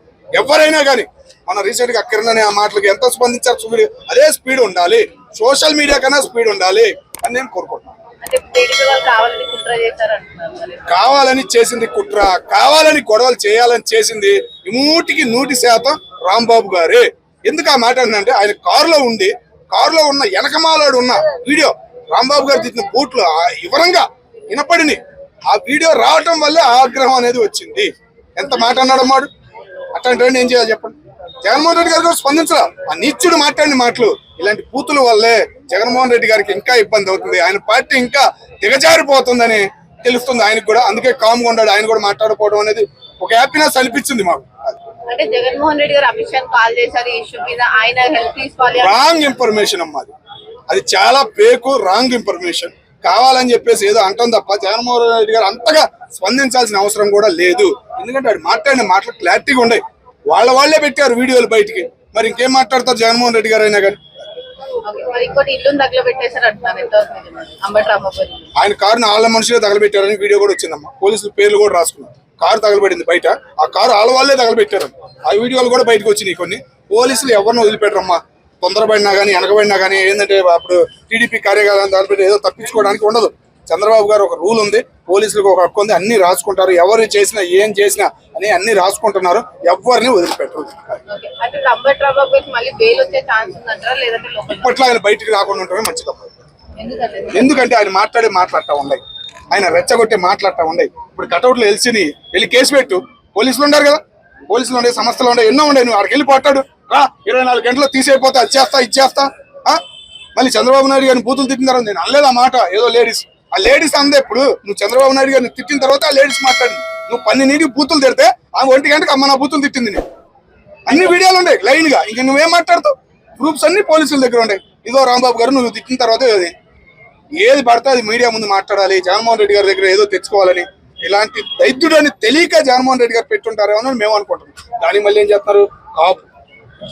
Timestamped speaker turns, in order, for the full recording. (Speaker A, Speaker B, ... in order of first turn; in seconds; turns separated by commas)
Speaker A: 0.3-7.9, Speaker B: 8.2-10.8, Speaker A: 10.9-29.3, Speaker A: 29.9-44.8, Speaker B: 45.1-49.1, Speaker A: 48.8-50.1, Speaker A: 50.7-64.0, Speaker B: 64.8-68.5, Speaker A: 68.6-91.0, Speaker B: 91.1-94.8, Speaker A: 94.5-96.3, Speaker B: 96.8-97.6, Speaker A: 97.3-109.8, Speaker A: 110.3-120.0, Speaker A: 120.9-126.5, Speaker A: 127.4-136.2